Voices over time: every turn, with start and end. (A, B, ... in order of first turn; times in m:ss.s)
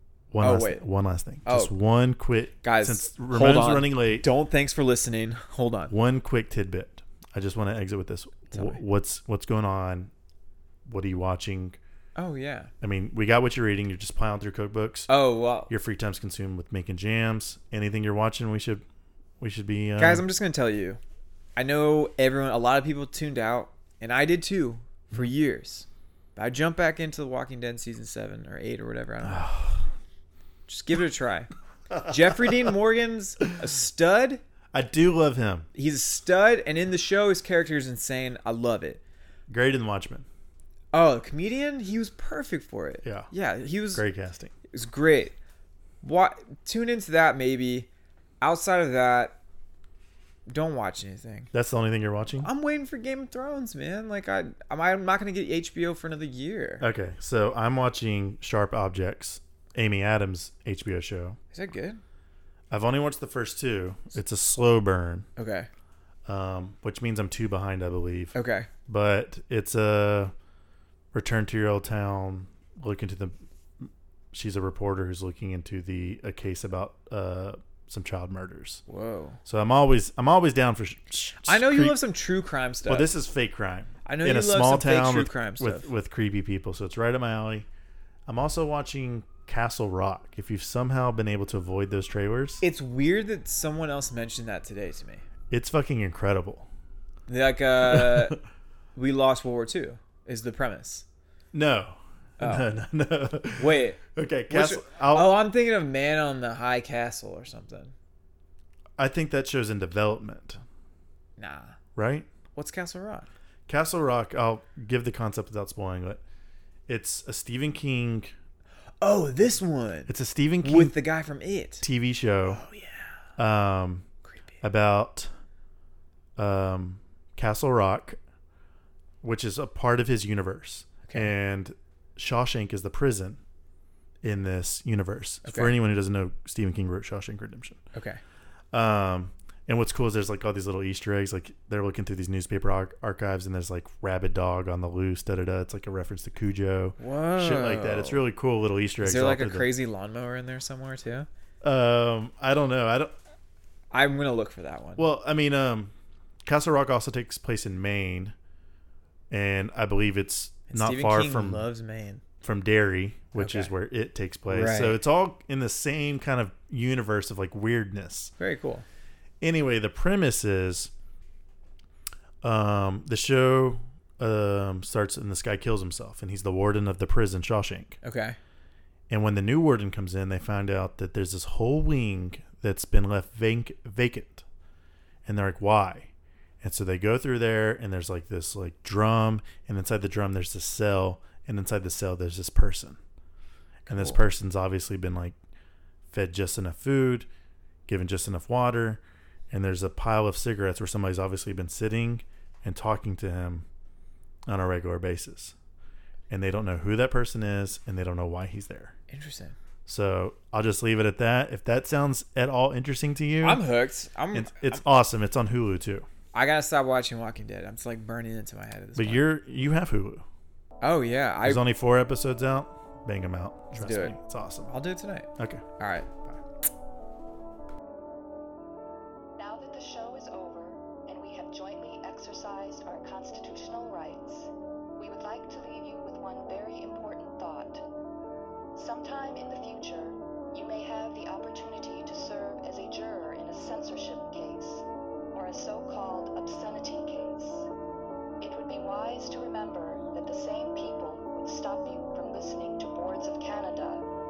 0:00.3-0:04.3 A
0:00.4-0:00.8 B
0:01.4-0:01.7 B
0:02.6-0:05.9 B
0:05.9-0:10.1 A
0:08.5-0:08.8 B
0:10.8-0:11.8 A
0:12.2-0:12.7 B
0:12.8-0:15.1 A
0:15.1-0:15.7 B
0:15.7-0:18.8 A
0:19.4-0:20.2 A
0:20.0-0:21.0 B
0:21.6-0:29.6 B
0:29.2-0:29.8 A
0:30.7-0:31.5 B
0:31.9-0:32.7 A
0:32.1-0:34.4 B
0:34.7-0:35.7 A
0:35.7-0:39.0 B
0:39.5-0:40.2 A
0:40.9-0:44.0 B
0:43.0-0:43.3 A
0:43.9-0:44.5 A
0:44.7-0:45.4 B
0:46.0-0:47.9 B
0:48.4-0:49.4 B
0:50.4-0:51.5 B
0:51.5-0:52.5 A
0:52.4-0:56.8 B
0:56.8-1:01.4 A
1:01.5-1:02.0 B
1:02.7-1:05.3 A
1:05.4-1:05.7 B
1:06.2-1:10.3 A
1:08.3-1:08.7 B
1:11.1-1:18.8 A
1:18.9-1:19.4 B
1:19.4-1:22.0 A
1:21.4-1:23.1 B
1:22.9-1:27.7 A
1:24.0-1:25.9 B
1:28.3-1:32.6 A
1:32.6-1:35.2 B
1:35.5-1:36.7 A
1:37.3-1:38.4 B
1:37.8-1:38.4 A
1:38.9-1:41.0 B
1:41.5-1:45.4 A
1:42.4-1:42.7 B
1:43.6-1:47.9 B
1:49.0-1:50.6 A
1:51.4-1:51.8 B
1:52.0-1:52.3 A
1:52.5-1:53.3 B
1:53.7-1:56.2 A
1:56.9-1:58.3 A
1:59.0-2:00.1 B
2:00.1-2:00.9 A
2:00.6-2:01.8 B
2:01.8-2:02.6 A
2:02.5-2:03.1 B
2:03.4-2:04.1 A
2:04.6-2:05.3 A
2:06.4-2:08.2 A
2:09.2-2:13.4 A
2:14.2-2:17.8 A
2:15.4-2:15.7 B
2:17.9-2:18.2 B
2:18.7-2:29.7 A
2:27.0-2:28.2 B
2:29.0-2:31.3 B
2:31.6-2:33.1 A
2:33.9-2:35.1 B
2:35.0-2:35.9 A
2:36.4-2:38.3 A
2:39.3-2:41.6 A
2:40.7-2:42.2 B
2:42.4-2:48.3 A
2:43.3-2:43.7 B
2:44.5-2:45.0 B
2:48.4-2:48.8 B
2:49.4-2:50.9 A
2:52.4-2:58.0 A
2:58.0-2:58.4 B
2:59.1-3:04.4 A
3:05.2-3:06.1 A
3:06.6-3:13.0 A
3:13.9-3:15.4 A
3:13.9-3:14.2 B
3:16.1-3:17.3 A
3:17.9-3:23.7 A
3:24.5-3:25.5 A
3:26.3-3:29.0 A
3:29.1-3:29.6 B
3:29.8-3:33.6 A
3:33.4-3:34.8 B
3:34.3-3:36.1 A
3:36.3-3:39.3 B
3:39.0-3:40.2 A
3:40.8-3:41.6 B
3:41.4-3:44.7 A
3:43.7-3:44.1 B
3:44.7-3:46.4 B
3:45.4-3:45.6 A
3:49.4-3:57.8 C
3:58.7-4:07.7 C
4:08.4-4:14.0 C